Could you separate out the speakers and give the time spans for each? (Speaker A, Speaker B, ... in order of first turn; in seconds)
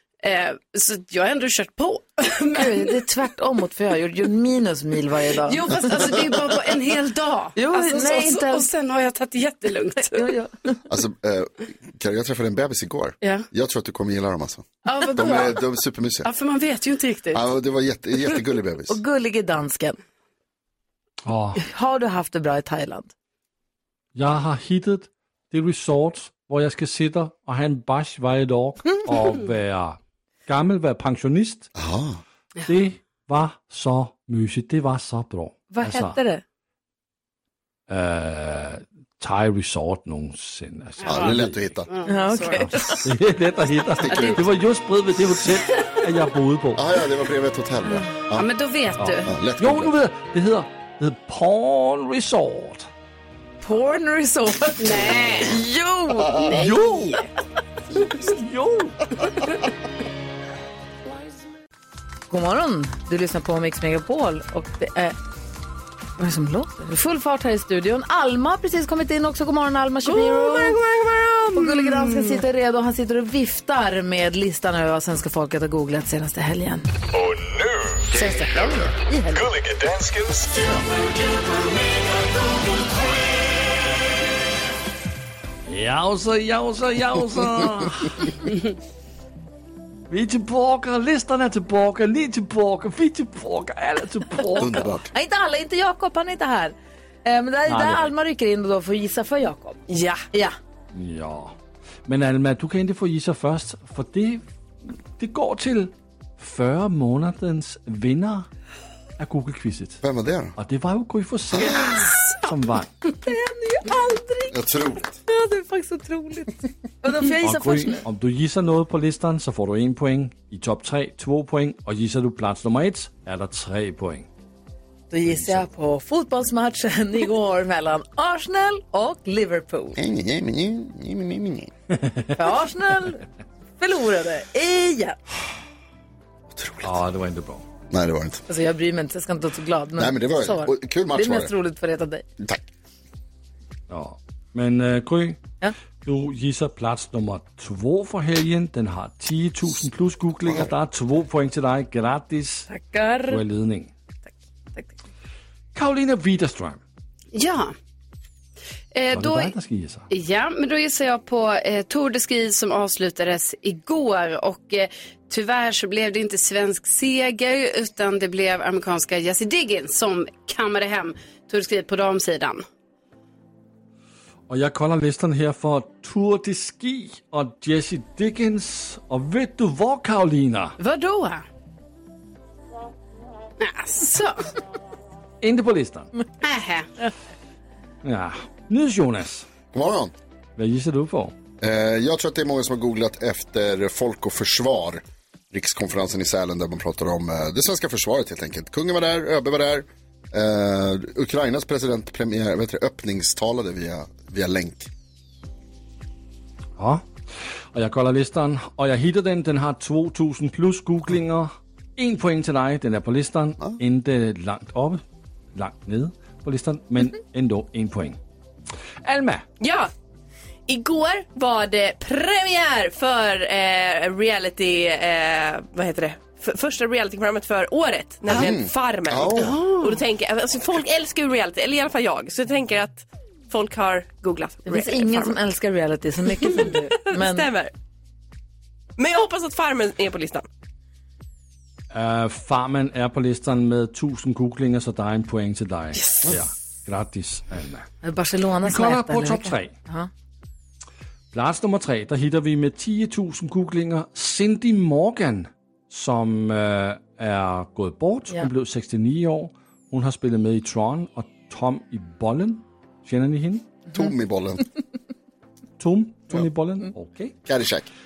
Speaker A: 0.2-3.0, 5.4-10.3, 14.9-15.6, 16.2-17.5, 41.0-42.7, 44.1-44.4, 48.4-49.3, 54.8-55.6, 56.3-57.2, 70.1-72.4, 157.3-157.8, 158.9-159.5, 160.1-172.7, 180.8-181.4, 183.6-184.5, 186.4-186.9, 229.3-230.0
Speaker B: 2.6-5.8, 7.6-8.7, 10.0-10.8, 18.9-20.0, 21.6-23.1, 35.7-36.4, 42.1-43.1, 53.6-56.4, 62.3-65.2, 66.2-70.8, 71.5-76.9, 78.2-79.5, 94.5-100.6, 113.2-114.6, 115.3-118.0, 125.1-130.0, 132.4-133.2, 133.8-135.2, 138.5-142.2, 152.7-153.4, 234.7-237.5, 248.0-250.1
Speaker C: 10.9-16.3, 17.3-19.0, 31.8-32.2, 41.1-41.9, 44.0-44.4, 46.8-48.5, 49.3-49.9, 94.6-95.1, 110.0-110.5, 111.5-112.0, 114.5-115.2, 130.0-131.7, 136.5-136.9, 137.9-138.4, 140.0-141.5, 142.4-142.7, 189.7-190.1, 191.6-204.9, 228.3-229.6, 263.9-264.6, 267.5-267.9
Speaker D: 21.3-21.6, 24.1-31.7, 32.7-36.2, 37.9-41.6, 43.0-46.8, 49.0-52.9, 56.4-57.2, 58.3-59.0, 85.7-88.4, 90.1-95.0, 97.7-98.1, 100.9-104.5, 105.2-108.5, 109.2-110.0, 110.6-112.9, 117.4-124.3, 136.8-137.7, 143.9-145.4, 146.0-152.7, 153.3-153.9, 155.8-156.8, 159.1-160.1, 174.5-180.8, 185.4-186.1, 188.0-189.5, 190.6-191.3, 206.8-207.1, 207.7-215.0, 215.6-218.2, 219.0-219.4, 241.9-247.9, 248.6-249.7, 251.3-263.8, 265.8-267.4
Speaker E: 99.9-100.2, 219.6-219.9, 220.7-235.4, 236.3-237.7, 239.0-240.5